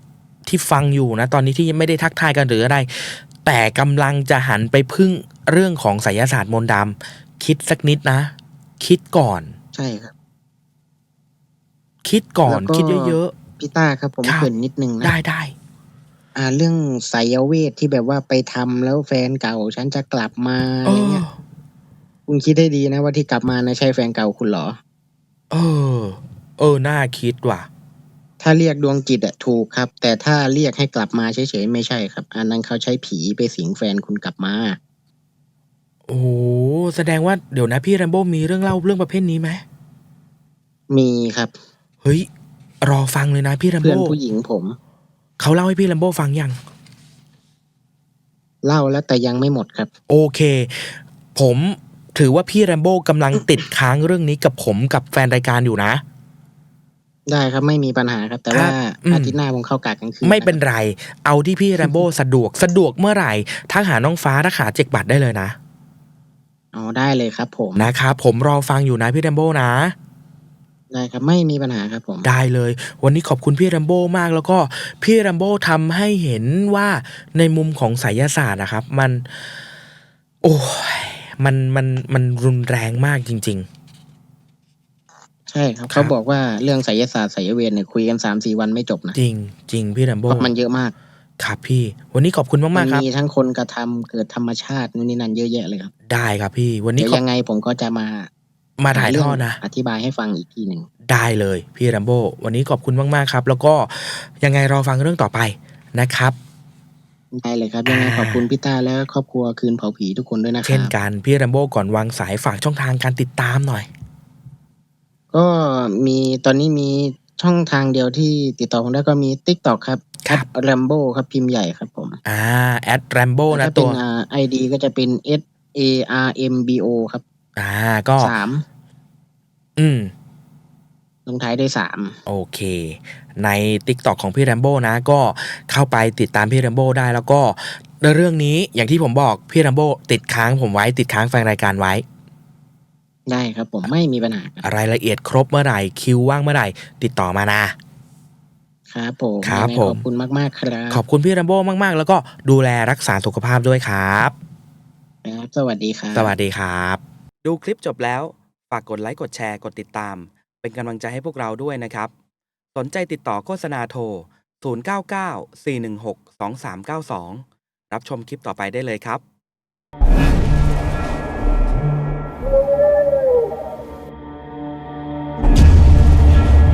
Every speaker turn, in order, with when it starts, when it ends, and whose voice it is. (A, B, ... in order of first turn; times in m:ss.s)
0:00.4-0:09.5 A
0:09.7-0:10.1 B
0:12.0-0:13.3 A
0:12.4-0:15.1 B
0:14.2-0:14.5 A
0:15.0-0:15.5 A
0:16.3-0:21.2 B
0:20.8-0:21.3 A
0:22.3-0:24.8 B
0:25.5-0:27.7 A
0:28.4-0:34.8 B
0:36.1-0:39.6 A
0:40.9-0:41.5 B
0:42.8-0:44.2 A
0:43.8-0:44.8 B
0:45.4-0:46.6 A
0:48.6-0:49.9 B
0:50.1-0:56.0 A
0:57.3-1:00.6 B
0:58.5-0:59.3 A
1:00.2-1:05.5 A
1:06.7-1:07.9 B
1:07.8-1:09.9 A
1:10.9-1:12.3 B
1:12.2-1:19.2 A
1:20.4-1:23.7 A
1:25.5-1:29.2 B
1:25.9-1:26.1 A
1:29.1-1:30.5 A
1:30.3-1:30.9 B
1:31.4-1:33.0 A
1:32.7-1:35.9 B
1:36.1-1:37.2 A
1:37.0-1:38.3 B
1:38.8-1:39.6 A
1:38.9-1:40.9 B
1:41.1-1:46.4 A
1:47.3-1:50.9 B
1:47.8-1:48.5 A
1:50.6-1:53.9 A
1:55.3-2:02.2 B
2:02.2-2:04.0 A
2:03.5-2:07.2 B
2:07.6-2:08.3 A
2:08.2-2:08.6 B
2:09.8-2:10.1 A
2:11.2-2:12.2 B
2:12.3-2:22.0 A
2:23.3-2:24.6 B
2:24.6-2:27.7 A
2:28.9-2:31.0 B
2:29.4-2:30.0 A
2:30.9-2:34.3 A
2:35.2-2:36.3 B
2:36.1-2:42.1 A
2:42.7-2:49.2 A